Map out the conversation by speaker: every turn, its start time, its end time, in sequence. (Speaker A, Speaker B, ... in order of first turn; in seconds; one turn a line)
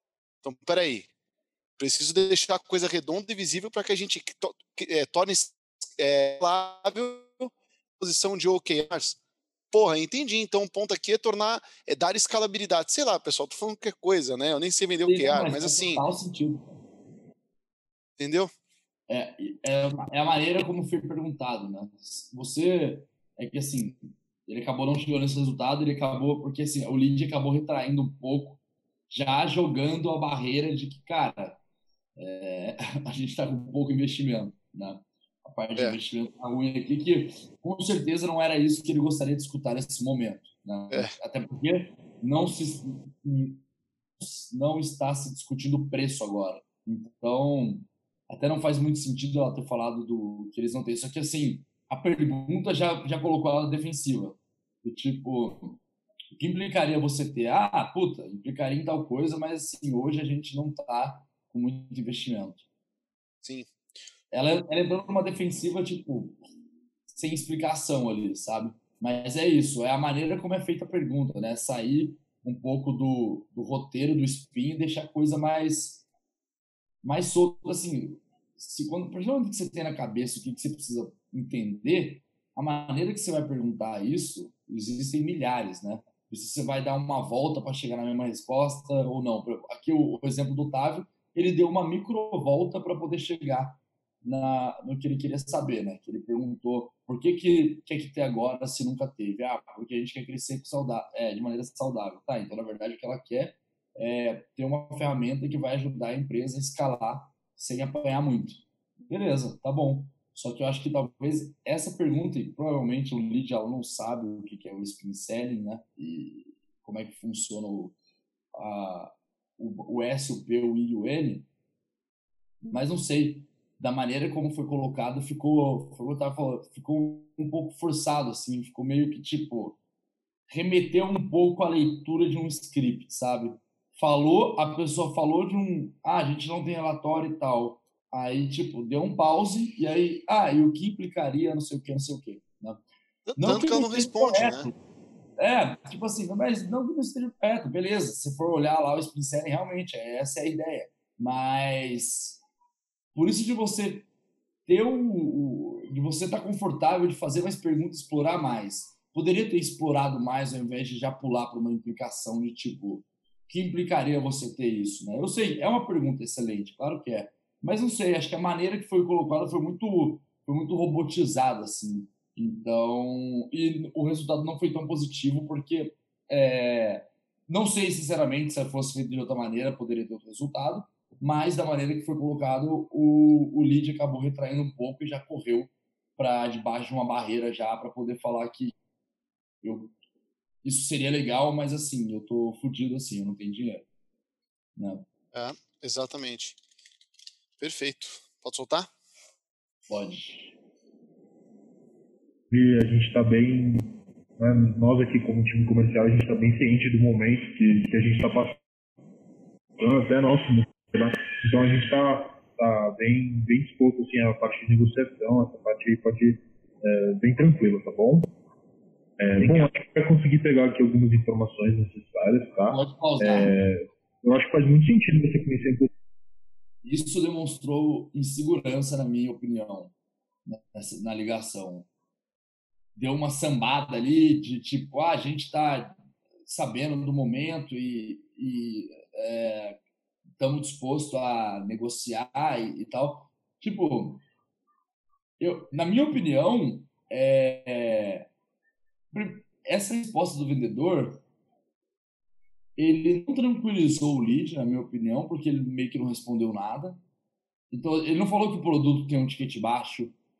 Speaker A: 0.4-1.1
Speaker A: 1.8-9.2
Speaker A: 9.7-16.0
Speaker B: 15.0-16.8
Speaker A: 18.2-18.5
Speaker B: 19.1-31.6
Speaker B: 32.2-43.6
Speaker B: 44.2-55.8
Speaker B: 56.3-62.6
Speaker A: 63.4-63.7
Speaker B: 64.3-66.4
Speaker B: 67.1-76.0
Speaker B: 77.0-117.9
Speaker B: 118.5-121.5
Speaker B: 122.7-129.8
Speaker B: 130.5-142.8
Speaker A: 143.3-144.7
Speaker B: 143.4-144.8
Speaker B: 145.4-152.4
Speaker B: 153.1-154.1
Speaker B: 154.7-188.7
Speaker B: 189.6-189.9
Speaker B: 190.6-193.9
Speaker B: 194.8-195.0
Speaker A: 195.3-196.6
Speaker A: 197.6-198.9
Speaker B: 199.9-200.5
Speaker C: 202.5-208.6
Speaker C: 209.8-218.3
Speaker C: 219.2-225.9
Speaker B: 222.7-223.5
Speaker B: 226.8-229.9
Speaker B: 230.5-231.9
Speaker B: 232.9-239.8
Speaker B: 240.4-244.2
Speaker B: 245.4-248.3
Speaker B: 249.1-251.2
Speaker B: 252.8-257.0
Speaker B: 257.7-260.1